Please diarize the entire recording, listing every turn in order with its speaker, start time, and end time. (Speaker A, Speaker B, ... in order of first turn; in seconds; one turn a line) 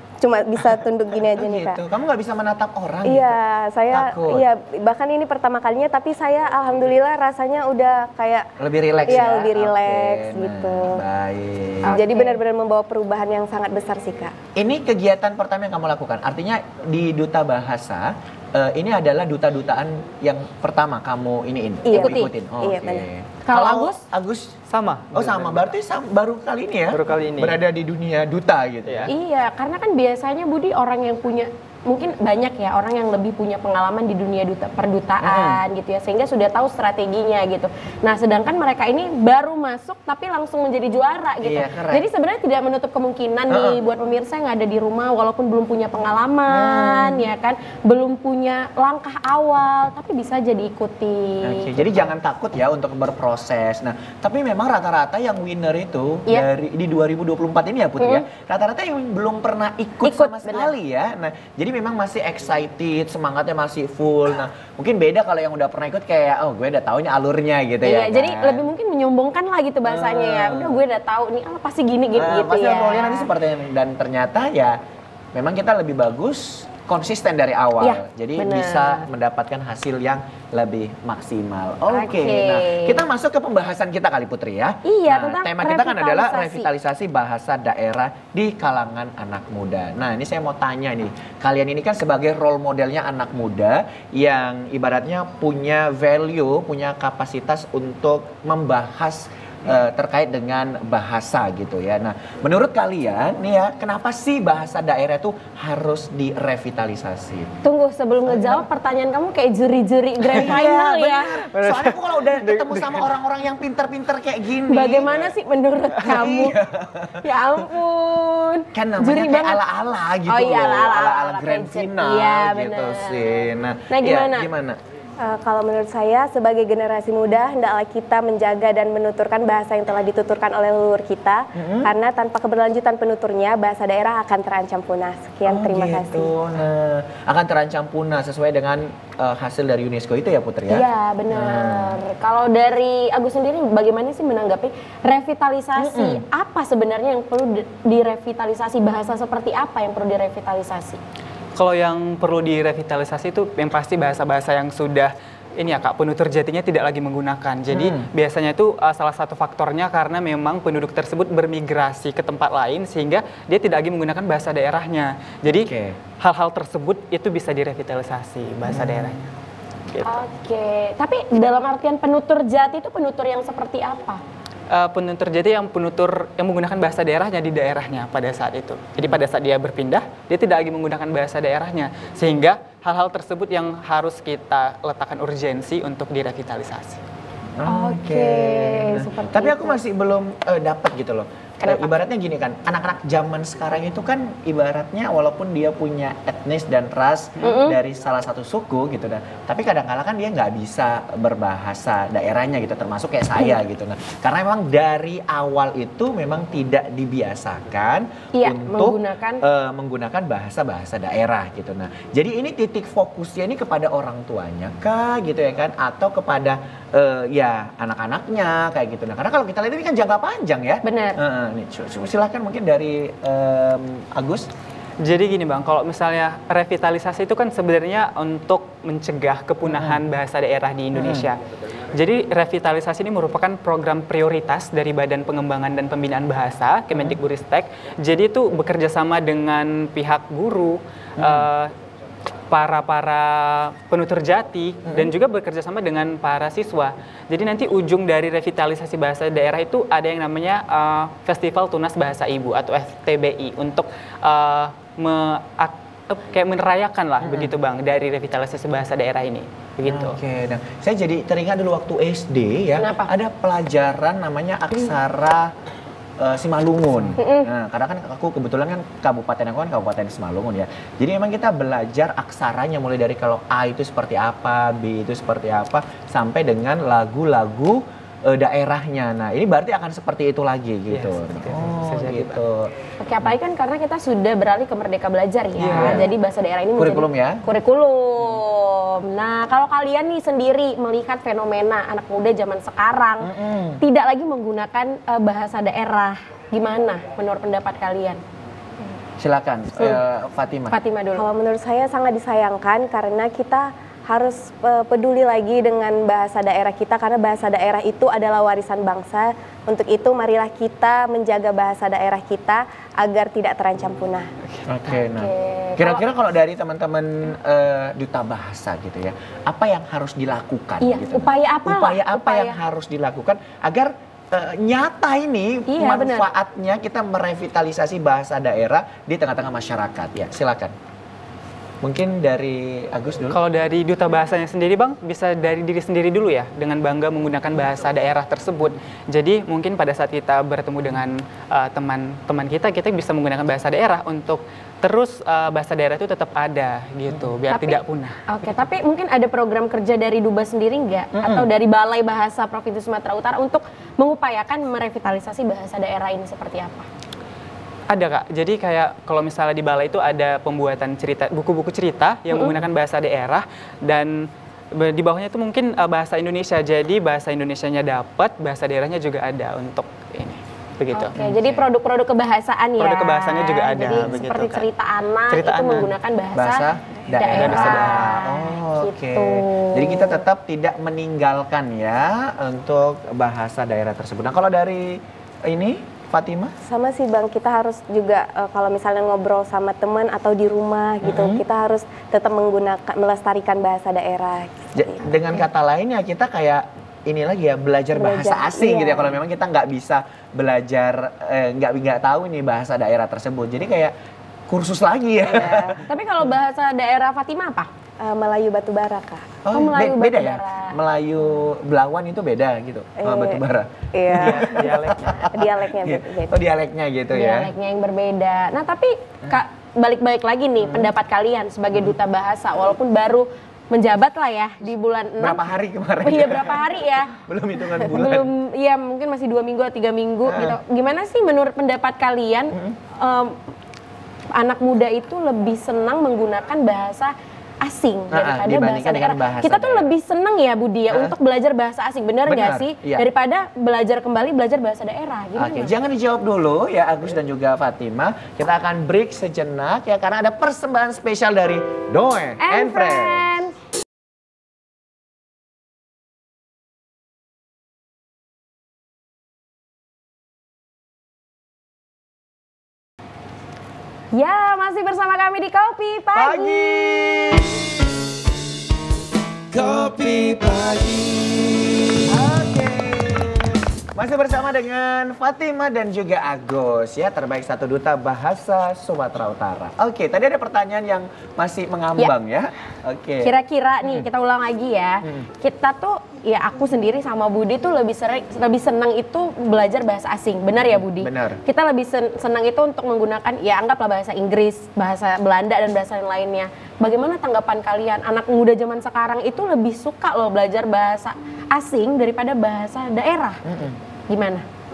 Speaker A: 0.2-1.8
Speaker B: 1.3-3.4
Speaker A: 3.0-8.5
Speaker B: 3.9-4.5
Speaker B: 8.6-12.0
Speaker A: 9.1-11.0
Speaker C: 11.8-12.4
Speaker A: 11.8-14.3
Speaker B: 14.6-24.6
Speaker C: 21.8-22.3
Speaker A: 21.9-23.1
Speaker C: 23.4-24.0
Speaker D: 24.7-25.7
Speaker B: 25.1-29.1
Speaker D: 26.9-27.6
Speaker D: 28.8-29.1
Speaker C: 29.1-51.8
Speaker B: 35.2-35.6
Speaker B: 41.4-42.1
Speaker B: 43.5-43.8
Speaker B: 46.5-47.3
Speaker B: 51.4-68.7
Speaker C: 58.0-58.2
Speaker C: 60.0-60.7
Speaker C: 67.8-73.3
Speaker B: 69.8-70.8
Speaker B: 72.2-74.8
Speaker B: 75.3-107.5
Speaker C: 77.8-79.1
Speaker C: 81.9-83.0
Speaker C: 84.8-86.7
Speaker C: 107.6-111.4
Speaker B: 108.3-108.6
Speaker B: 110.3-115.3
Speaker D: 111.5-113.1
Speaker C: 114.7-116.6
Speaker B: 116.0-117.2
Speaker C: 117.2-119.6
Speaker B: 118.7-124.8
Speaker C: 120.3-123.3
Speaker C: 123.9-124.5
Speaker A: 125.2-136.3
Speaker B: 131.5-131.9
Speaker B: 135.4-142.0
Speaker C: 140.7-151.0
Speaker B: 145.8-146.2
Speaker D: 151.6-169.3
Speaker B: 157.7-158.1
Speaker B: 165.4-166.0
Speaker B: 168.7-169.2
Speaker D: 169.9-170.2
Speaker C: 170.0-174.2
Speaker D: 174.7-187.0
Speaker B: 187.6-224.5
Speaker C: 187.7-189.8
Speaker C: 191.6-191.9
Speaker C: 197.4-197.8
Speaker C: 208.3-209.4
Speaker C: 220.8-221.2
Speaker D: 225.0-231.4
Speaker B: 229.6-230.0
Speaker B: 230.9-231.3
Speaker D: 231.9-241.7
Speaker B: 236.9-237.2
Speaker B: 241.2-241.5
Speaker D: 242.5-260.2
Speaker B: 244.8-245.1
Speaker B: 257.2-257.5
Speaker B: 259.8-265.5
Speaker C: 262.8-263.1
Speaker B: 266.2-282.7
Speaker C: 267.2-267.5
Speaker D: 280.9-282.4
Speaker C: 283.0-298.2
Speaker D: 285.6-286.0
Speaker B: 285.7-286.1
Speaker B: 286.8-287.4
Speaker B: 293.2-293.8
Speaker B: 299.2-300.8
Speaker C: 300.7-301.2
Speaker A: 301.1-314.3
Speaker B: 314.7-330.7
Speaker C: 314.9-316.0
Speaker C: 320.8-322.6
Speaker C: 325.7-326.3
Speaker B: 331.8-333.4
Speaker D: 333.3-348.4
Speaker C: 347.5-356.9
Speaker B: 351.1-351.5
Speaker D: 357.9-371.3
Speaker C: 370.9-380.2
Speaker B: 371.1-371.6
Speaker D: 372.8-374.6
Speaker D: 375.3-375.9
Speaker B: 376.3-386.5
Speaker D: 377.3-378.1
Speaker A: 386.6-395.2
Speaker B: 391.0-391.4
Speaker B: 394.7-403.9
Speaker A: 397.9-399.1
Speaker B: 404.5-405.9
Speaker A: 405.3-405.8
Speaker C: 405.9-407.7
Speaker A: 408.0-409.4
Speaker B: 409.4-417.5
Speaker C: 409.5-410.8
Speaker A: 413.0-413.4
Speaker A: 413.9-416.4
Speaker D: 414.2-415.3
Speaker C: 417.1-425.4
Speaker B: 420.6-420.9
Speaker B: 425.2-428.3
Speaker C: 426.0-427.1
Speaker C: 427.8-433.4
Speaker B: 430.2-430.6
Speaker C: 434.3-445.7
Speaker B: 438.1-439.9
Speaker B: 440.9-441.1
Speaker B: 442.2-443.1
Speaker B: 445.4-453.3
Speaker C: 452.4-453.5
Speaker C: 464.1-467.0
Speaker B: 466.1-467.6
Speaker E: 469.5-472.1
Speaker B: 469.6-470.3
Speaker B: 472.1-484.1
Speaker C: 483.2-503.4
Speaker B: 490.6-491.4
Speaker B: 503.4-503.8
Speaker C: 504.1-504.4